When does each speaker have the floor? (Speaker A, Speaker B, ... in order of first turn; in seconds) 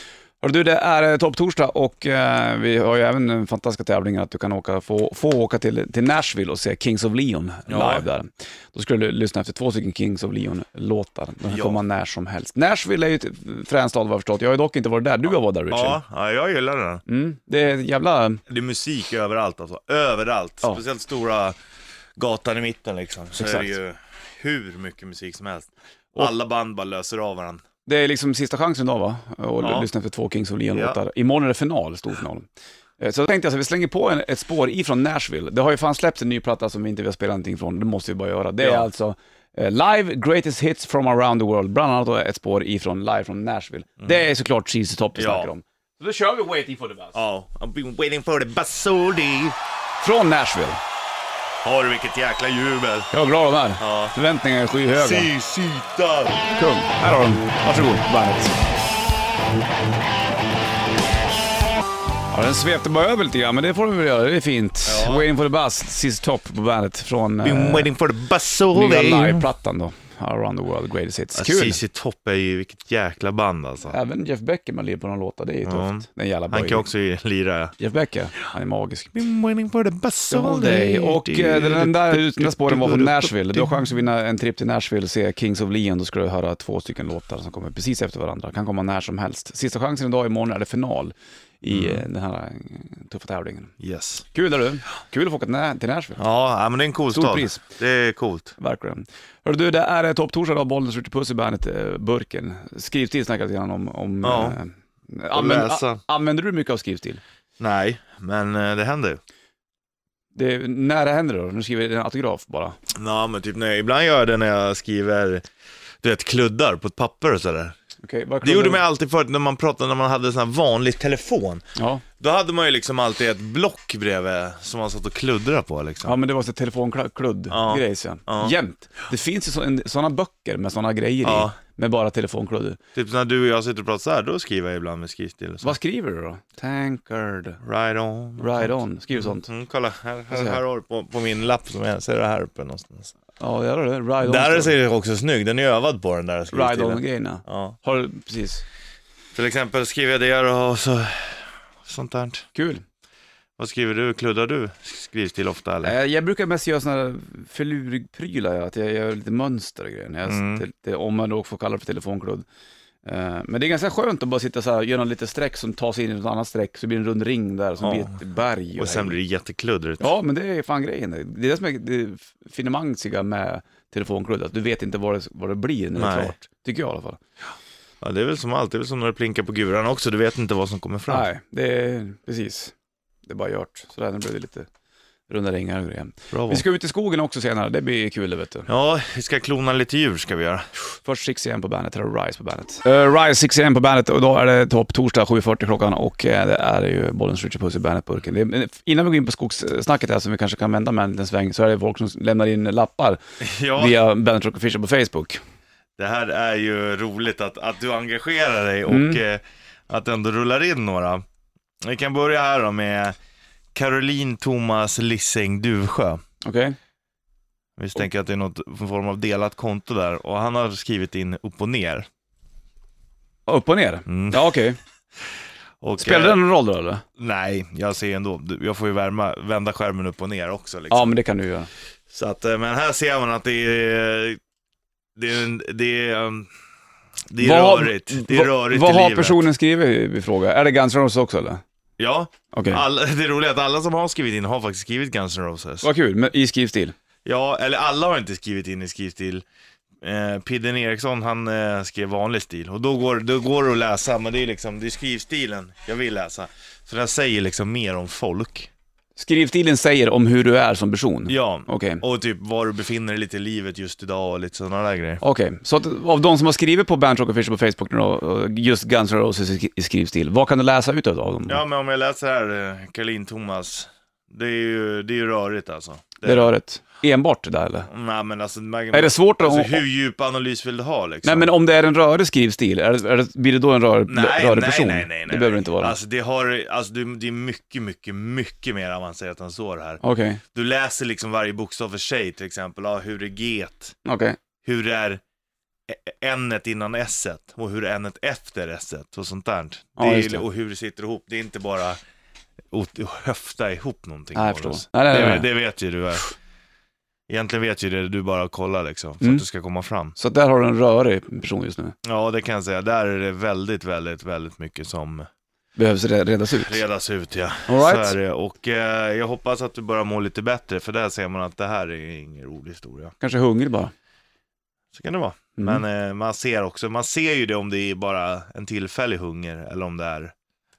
Speaker A: 0.4-16.0, 17.1-18.4, 23.3-23.7, 27.9-32.5, 33.0-47.2, 50.0-50.8, 53.1-55.3, 56.5-58.5, 62.3-67.9, 68.7-71.8, 73.9-76.9, 77.8-79.2, 80.3-93.7, 94.3-96.2, 97.1-97.6, 98.6-107.2, 110.3-112.8, 118.0-118.8, 121.8-122.0, 126.0-132.8, 135.6-137.6, 138.4-139.5, 140.3-140.6, 143.4-144.7, 146.5-148.6, 152.5-152.8, 155.8-162.4, 163.0-169.2, 170.0-177.2, 181.1-182.7, 183.2-184.7, 185.3-188.7, 191.0-203.2, 203.7-205.4, 208.9-209.2, 216.4-216.8, 223.5-224.8, 226.0-227.0, 230.9-231.7, 237.4-241.6, 242.5-242.8, 245.8-246.9, 259.1-262.0, 265.2-271.6, 276.2-277.9, 278.9-279.8, 281.2-286.0, 290.0-290.4, 294.0-294.4, 300.0-300.4, 304.3-305.5, 310.1-311.9, 315.8-316.8, 317.7-318.1, 323.2-323.9, 325.6-325.8
Speaker B: 7.7-8.1, 11.5-11.8, 15.7-17.0, 18.5-21.6, 22.1-27.6, 29.6-29.9, 30.7-31.0, 38.6-38.9, 45.1-45.5, 47.1-49.5, 51.6-53.1, 53.8-54.1, 54.9-56.5, 64.8-65.3, 67.4-69.5, 71.3-73.9, 75.6-77.7, 79.1-83.9, 91.7-92.0, 93.8-94.2, 96.2-98.5, 104.2-104.6, 105.3-106.0, 107.6-109.2, 112.9-115.5, 116.0-117.7, 118.4-121.6, 122.2-126.1, 127.5-128.5, 131.2-131.6, 132.9-135.8, 137.6-143.1, 144.2-147.8, 149.3-152.5, 153.6-155.9, 160.2-160.6, 167.8-168.2, 168.8-170.1, 176.0-176.3, 178.0-181.3, 186.3-186.6, 188.7-190.7, 203.4-204.0, 206.0-211.2, 211.8-213.2, 213.7-216.2, 217.8-222.1, 224.1-224.5, 225.8-226.4, 227.2-231.1, 232.1-234.4, 235.2-236.5, 237.3-239.4, 242.0-245.9, 247.2-249.4, 250.0-258.7, 261.3-265.2, 271.5-276.5, 277.9-281.5, 284.1-290.0, 290.5-293.9, 294.6-295.2, 295.9-302.0, 302.7-306.2, 307.3-310.1, 312.0-315.3, 316.5-323.1, 324.9-330.3